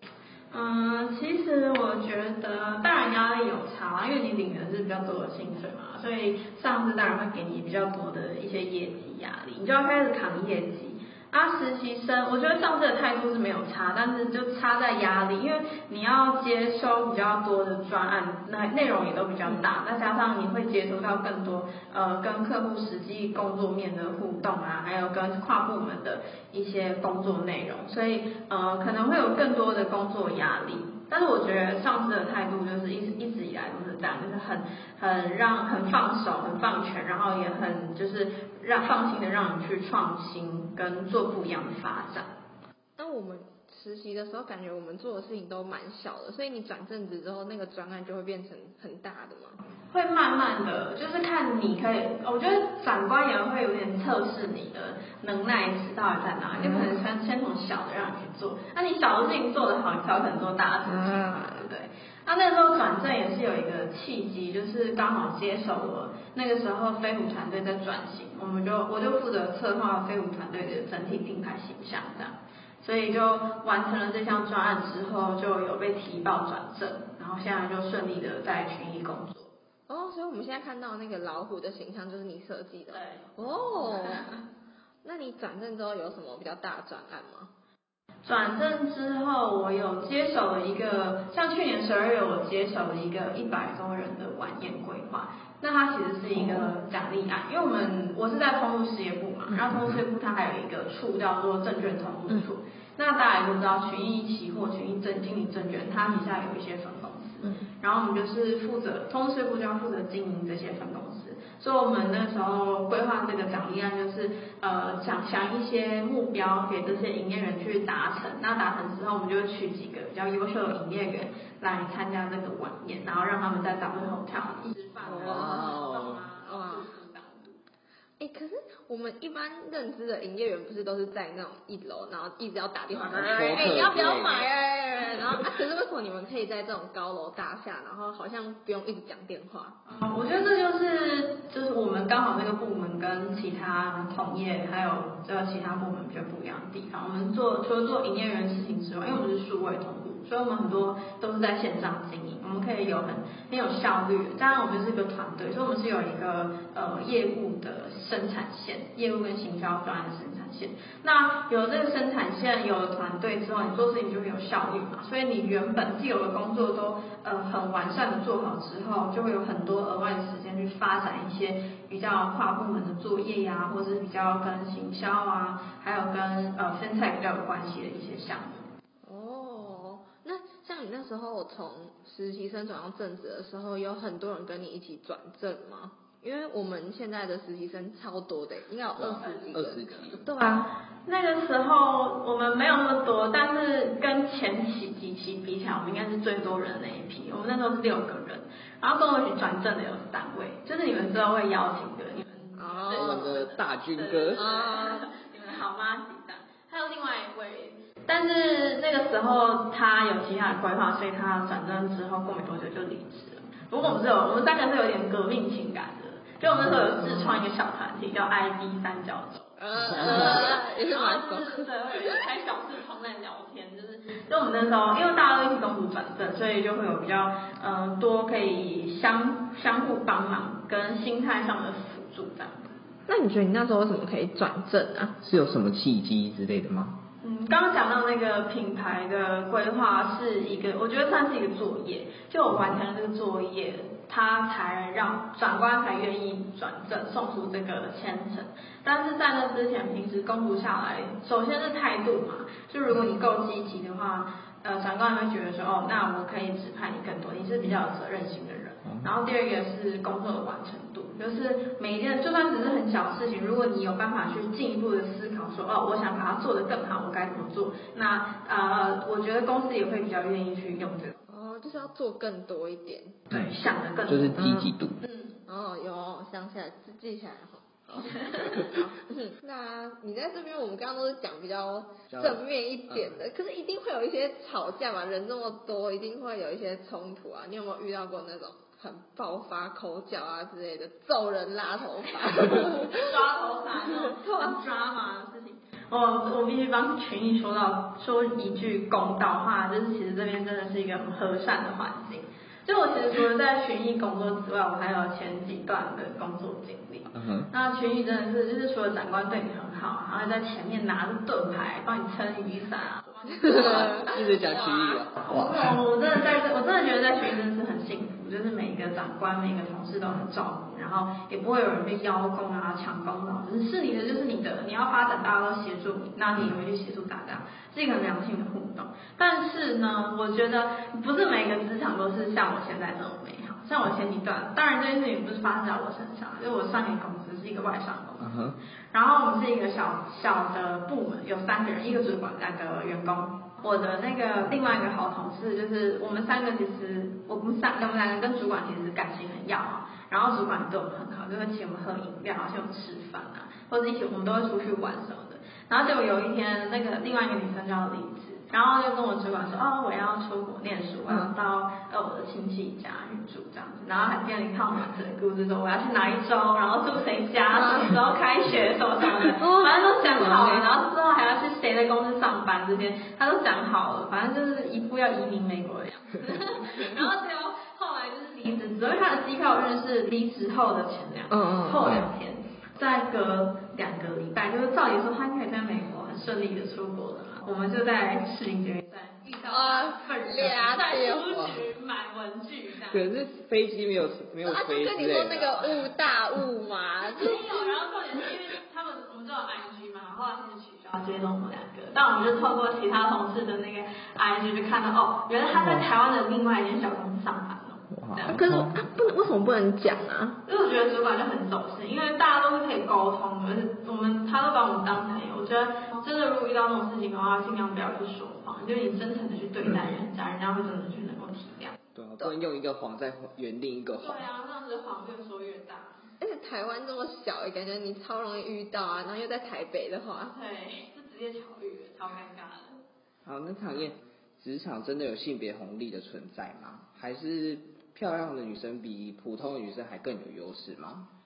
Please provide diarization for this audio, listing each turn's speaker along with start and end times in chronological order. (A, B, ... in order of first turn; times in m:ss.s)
0:00.5-0:42.3 A
0:43.0-0:49.6 B
0:49.9-1:19.5 A
0:56.6-0:57.0 B
1:00.9-1:01.7 B
1:19.9-1:24.3 B
1:22.9-1:23.3 A
1:23.9-1:24.2 A
1:25.0-1:27.5 B
1:28.2-2:07.6 A
2:05.1-2:05.7 B
2:05.1-2:06.2 C
2:06.4-2:06.9 B
2:08.2-2:19.8 B
2:12.9-2:14.5 C
2:19.9-2:58.7 A
2:59.0-3:10.7 B
3:09.0-3:10.2 C
3:09.2-3:09.5 A
3:11.1-3:52.8 A
3:22.6-3:23.2 B
3:22.9-3:24.5 C
3:24.4-3:25.1 B
3:39.6-3:41.7 B
3:40.0-3:40.2 C
3:53.1-3:55.2 B
3:55.2-3:57.0 C
3:57.2-4:31.2 A
4:31.3-4:33.2 B
4:33.3-4:35.4 A
4:34.1-4:35.0 C
4:34.4-4:34.7 B
4:35.5-4:53.1 B
4:38.1-4:38.7 A
4:42.1-4:43.2 C
4:52.8-5:38.3 A
5:07.1-5:07.5 C
5:13.5-5:15.8 C
5:13.6-5:14.0 B
5:38.2-5:38.6 C
5:38.9-6:33.1 A
6:09.4-6:10.8 B
6:21.3-6:21.8 B
6:29.5-6:31.4 B
6:31.3-6:31.6 C
6:32.9-6:35.9 C
6:34.4-6:37.4 B
6:37.0-6:48.4 A
6:47.9-6:48.8 C
6:48.3-6:50.4 B
6:50.4-7:01.8 A
7:02.0-7:04.2 C
7:04.0-7:06.1 A
7:06.2-7:10.4 B
7:10.3-7:12.8 A
7:13.2-7:21.1 C